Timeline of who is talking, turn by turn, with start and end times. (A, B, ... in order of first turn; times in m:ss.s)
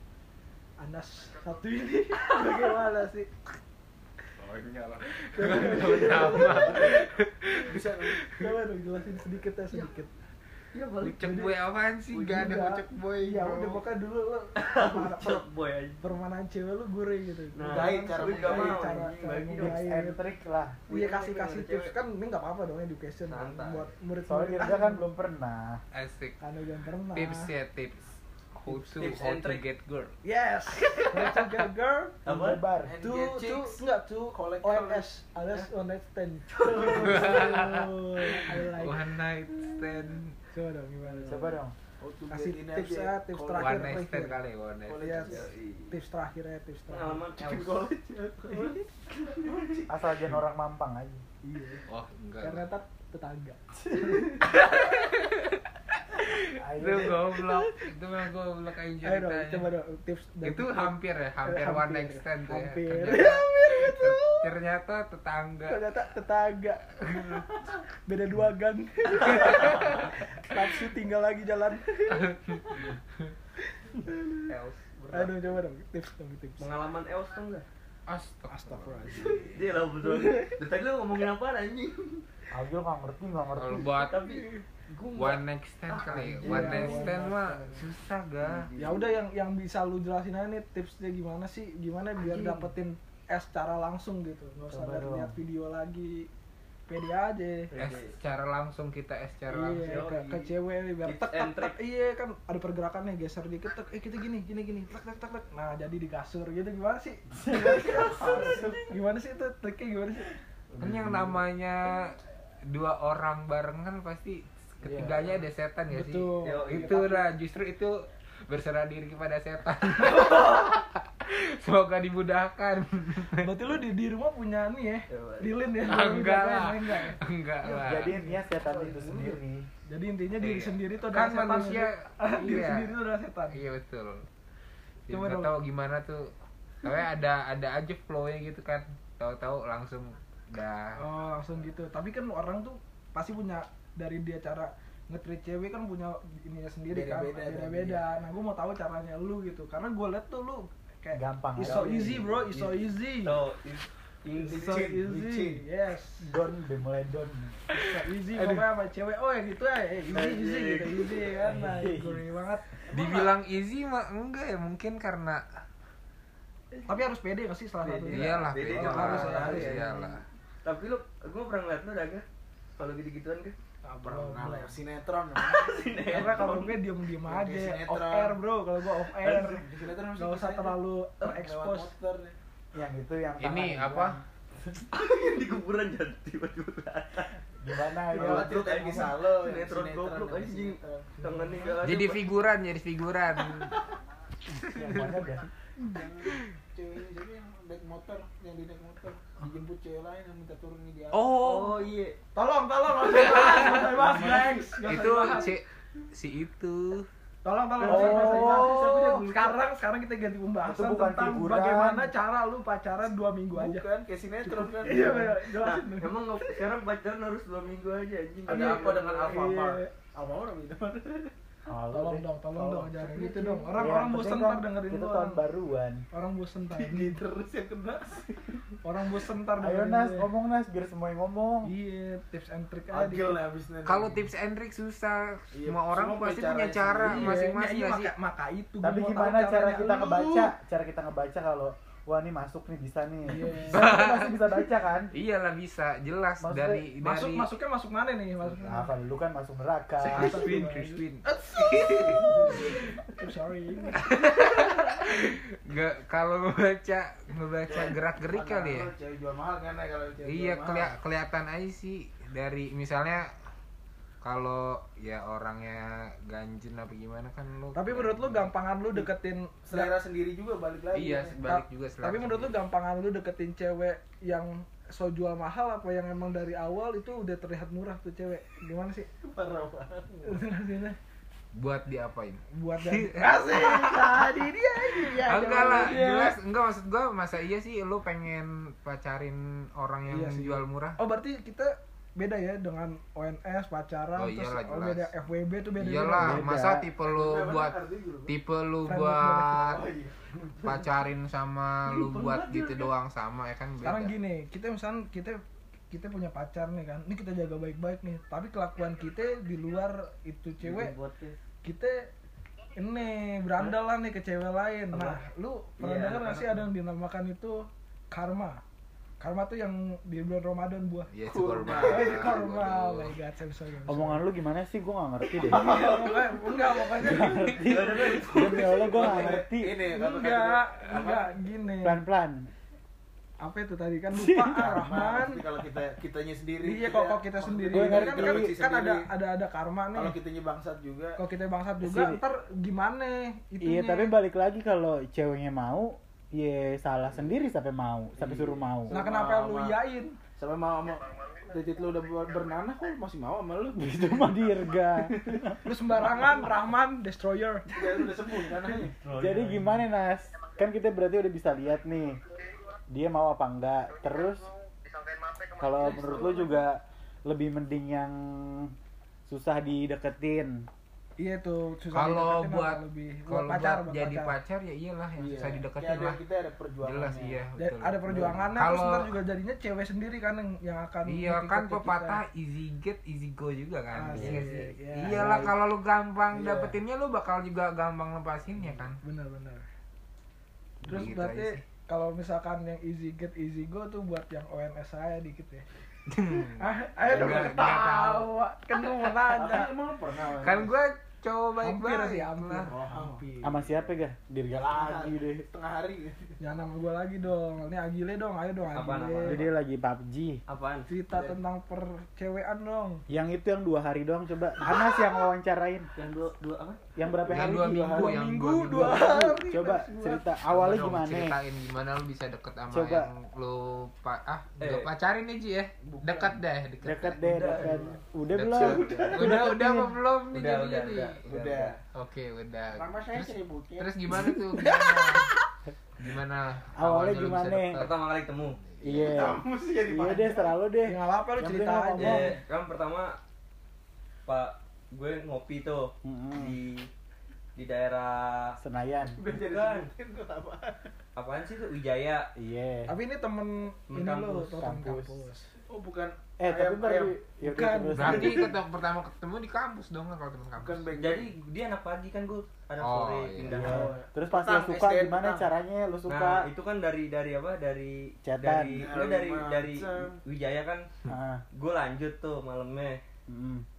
0:00.8-0:03.3 A
0:04.4-0:08.5 B
0:05.2-0:07.0 A
0:05.8-0:06.3 C
0:07.7-0:08.2 D
0:08.3-0:10.1 A
0:10.7-0:11.3 C
0:11.0-0:12.7 B
0:11.2-0:11.5 A
0:12.1-0:13.8 D
0:12.2-0:15.4 A
0:14.6-0:16.0 C
0:16.0-0:20.2 A
0:17.5-0:19.8 C
0:17.6-0:19.1 D
0:19.6-0:20.8 E
0:20.9-0:22.0 C
0:20.9-0:25.2 A
0:23.2-0:23.9 C
0:24.3-0:25.8 E
0:25.9-0:26.4 B
0:26.4-0:27.5 A
0:27.1-0:30.1 B
0:29.0-0:29.4 D
0:29.0-0:29.6 C
0:30.2-0:32.2 A
0:30.9-0:31.7 B
0:32.2-0:32.9 E
0:32.2-0:33.3 C
0:32.8-0:33.8 D
0:33.2-0:39.1 A
0:34.3-0:35.0 D
0:36.5-0:37.4 C
0:36.9-0:40.4 B
0:40.5-0:41.5 A
0:41.2-0:41.7 E
0:42.0-0:44.0 D
0:42.3-0:44.4 A
0:43.6-0:45.1 B
0:44.9-0:45.4 D
0:45.0-0:47.2 A
0:45.2-0:46.0 C
0:46.9-0:49.7 C
0:47.4-0:50.4 D
0:49.9-0:51.2 E
0:51.4-0:51.8 A
0:51.9-0:52.6 B
0:52.4-0:54.5 A
0:54.4-0:55.6 B
0:56.2-0:59.7 B
0:56.6-0:57.2 E
0:59.0-1:04.5 A
1:00.4-1:05.8 B
1:05.7-1:12.9 A
1:07.1-1:07.4 B
1:12.2-1:13.3 B
1:13.8-1:14.4 A
1:14.5-1:15.5 C
1:15.1-1:16.7 A
1:16.6-1:17.6 C
1:18.1-1:19.4 B
1:18.5-1:19.6 A
1:19.5-1:22.2 C
1:22.5-1:24.0 E
1:23.6-1:24.2 B
1:24.1-1:27.2 C
1:24.4-1:24.6 A
1:25.1-1:28.7 B
1:26.4-1:27.8 A
1:28.4-1:29.1 C
1:28.8-1:36.3 A
1:32.2-1:32.7 C
1:34.7-1:35.2 E
1:36.9-1:37.7 A
1:37.7-1:38.1 C
1:37.8-1:40.0 B
1:39.5-1:50.3 A
1:39.8-1:40.5 C
1:41.0-1:41.8 C
1:47.4-1:48.8 E
1:48.0-1:48.8 D
1:50.8-1:58.0 B
1:54.8-1:55.4 D
1:55.9-1:57.3 A
1:56.4-1:57.2 C
1:58.5-2:03.5 B
2:03.4-2:07.8 A
2:05.1-2:05.6 C
2:05.8-2:08.2 B
2:07.8-2:09.7 E
2:08.3-2:09.4 D
2:09.8-2:13.6 A
2:10.4-2:13.0 B
2:13.5-2:14.3 B
2:15.1-2:15.5 A
2:15.1-2:16.3 B
2:16.8-2:21.0 B
2:21.0-2:33.4 A
2:26.9-2:28.1 D
2:31.1-2:32.3 E
2:31.6-2:32.0 C
2:33.2-2:34.9 C
2:34.4-2:36.3 A
2:34.4-2:35.6 D
2:36.2-2:37.9 E
2:37.8-2:42.8 A
2:40.1-2:41.3 C
2:41.4-2:42.2 E
2:42.9-2:45.6 B
2:46.8-2:49.8 A
2:47.8-2:50.0 C
2:48.1-2:50.2 B
2:48.9-2:50.1 D
2:50.6-2:52.2 C
2:52.8-2:53.6 C
2:53.8-2:54.8 A
2:54.0-2:56.2 D
2:55.3-2:56.8 C
2:56.0-2:59.6 A
2:57.2-2:58.4 D
2:59.0-2:59.6 C
2:59.4-3:02.4 D
3:00.2-3:01.9 A
3:02.7-3:04.2 E
3:03.4-3:04.2 B
3:04.9-3:07.4 C
3:07.6-3:08.6 E
3:08.1-3:11.3 D
3:08.1-3:12.2 C
3:11.2-3:11.7 A
3:11.8-3:13.8 B
3:14.6-3:15.5 E
3:15.8-3:21.2 D
3:16.2-3:16.5 B
3:21.1-3:21.9 B
3:21.4-3:22.2 C
3:22.3-3:25.6 A
3:23.2-3:23.9 B
3:23.2-3:25.4 D
3:24.7-3:27.1 B
3:27.4-3:33.8 A
3:27.8-3:28.7 C
3:27.8-3:28.8 E
3:27.9-3:29.6 D
3:30.6-3:32.1 E
3:33.5-3:35.4 D
3:34.5-3:36.5 A
3:35.6-3:39.4 C
3:38.4-3:41.3 D
3:38.6-3:39.9 A
3:41.7-3:42.2 E
3:41.9-3:45.4 A
3:42.5-3:43.9 D
3:43.7-3:46.0 E
3:46.1-3:47.2 A
3:46.7-3:48.6 D
3:48.8-3:50.3 A
3:49.6-3:51.7 E
3:51.6-3:53.4 A
3:52.9-3:54.3 D
3:53.8-3:58.1 B
3:55.5-3:57.3 D
3:57.0-4:00.0 A
3:58.8-4:05.1 E
3:59.8-4:00.5 D
4:03.2-4:04.0 A
4:03.7-4:04.4 B
4:05.1-4:07.5 B
4:06.4-4:06.8 E
4:07.0-4:08.9 A
4:08.6-4:10.6 E
4:10.0-4:14.6 A
4:10.1-4:12.9 B
4:14.0-4:18.9 B
4:17.7-4:20.9 D
4:20.2-4:23.3 B
4:24.2-4:28.5 B
4:27.7-4:29.9 A
4:29.7-4:31.4 D
4:30.9-4:32.6 B
4:31.4-4:39.1 A
4:39.2-4:40.4 D
4:40.2-4:41.0 A
4:41.5-4:44.4 B
4:42.5-4:43.5 A
4:43.2-4:46.3 D
4:45.0-4:45.9 A
4:45.2-4:51.0 B
4:50.1-4:56.4 A
4:54.1-4:55.1 B
4:55.8-4:59.8 B
4:56.2-4:56.9 E
4:57.0-4:58.3 D
4:58.8-4:59.8 A
4:59.7-5:00.2 D
5:00.4-5:00.9 C
5:00.6-5:04.1 B
5:01.9-5:02.9 C
5:03.8-5:05.4 A
5:05.9-5:10.9 A
5:10.6-5:11.4 C
5:11.6-5:12.1 A
5:12.7-5:18.6 A
5:14.9-5:15.2 C
5:15.8-5:16.6 C
5:19.2-5:21.1 A
5:21.1-5:23.2 B
5:21.3-5:22.3 D
5:21.7-5:24.2 A
5:23.9-5:25.9 E
5:25.4-5:27.2 D
5:25.4-5:27.6 A
5:27.0-5:29.8 E
5:27.3-5:28.3 B
5:27.6-5:29.0 C
5:28.3-5:31.4 D
5:28.3-5:29.4 A
5:29.9-5:32.0 A
5:31.8-5:32.5 E
5:33.4-5:35.4 A
5:34.1-5:35.2 E
5:34.5-5:39.1 D
5:36.6-5:40.2 A
5:37.7-5:38.5 E
5:39.9-5:41.2 D
5:41.2-5:44.2 A
5:41.8-5:42.2 E
5:43.6-5:49.0 E
5:47.1-5:47.4 D
5:48.2-5:49.8 D
5:48.9-5:50.2 A
5:50.4-5:56.3 D
5:53.8-5:56.4 E
5:55.6-5:57.6 A
5:57.7-5:58.9 D
5:58.6-5:59.8 C
5:59.1-6:02.2 E
6:02.9-6:04.5 E
6:05.5-6:08.7 E
6:05.8-6:06.6 D
6:09.3-6:10.7 E
6:11.2-6:14.4 A
6:11.9-6:16.2 B
6:15.2-6:17.4 D
6:16.8-6:19.1 B
6:17.6-6:22.2 A
6:18.1-6:18.5 E
6:21.0-6:29.0 B
6:23.9-6:25.2 A
6:25.0-6:25.5 E
6:26.3-6:26.8 D
6:29.0-6:29.6 A
6:30.8-6:31.6 B
6:30.8-6:35.6 A
6:36.1-6:38.3 B
6:36.5-6:39.7 A
6:37.1-6:37.6 D
6:39.3-6:40.7 D
6:40.2-6:42.7 B
6:41.6-6:43.4 A
6:42.5-6:43.9 D
6:43.4-6:45.4 E
6:44.6-6:46.4 D
6:46.4-6:49.4 A
6:48.7-6:49.5 C
6:49.2-6:50.4 E
6:50.5-6:50.9 C
6:50.9-6:53.0 A
6:51.1-6:51.4 D
6:53.1-6:55.9 E
6:54.6-6:55.1 C
6:56.0-6:56.8 C
6:56.9-7:01.4 E
6:57.3-6:59.0 B
6:57.9-7:00.3 A
7:00.4-7:07.3 B
7:02.7-7:03.1 E
7:04.6-7:04.9 C
7:05.8-7:06.4 D
7:06.8-7:10.0 E
7:07.2-7:08.0 A
7:07.4-7:07.7 D
7:08.3-7:11.2 B
7:08.5-7:09.4 D
7:10.3-7:11.8 C
7:11.3-7:11.8 D
7:11.9-7:15.3 B
7:12.7-7:14.3 D
7:16.0-7:18.9 B
7:16.8-7:17.8 E
7:17.7-7:18.6 C
7:18.8-7:22.4 E
7:18.9-7:20.6 D
7:20.8-7:22.3 A
7:22.0-7:23.2 C
7:24.2-7:26.9 C
7:26.0-7:26.6 E
7:27.6-7:28.6 C
7:28.6-7:29.2 E
7:29.0-7:30.9 D
7:29.3-7:29.9 C
7:31.1-7:32.3 C
7:32.4-7:33.0 E
7:32.9-7:35.5 A
7:33.9-7:34.6 C
7:34.6-7:35.1 E
7:35.7-7:37.2 D
7:36.4-7:38.5 E
7:37.4-7:38.5 A
7:37.9-7:40.8 B
7:40.5-7:41.3 D
7:40.9-7:43.9 C
7:42.8-7:43.6 B
7:43.5-7:46.5 E
7:43.6-7:45.5 D
7:46.1-7:50.9 C
7:48.2-7:48.8 E
7:48.7-7:50.2 D
7:51.1-7:51.4 E
7:51.5-7:53.0 C
7:53.3-7:53.6 E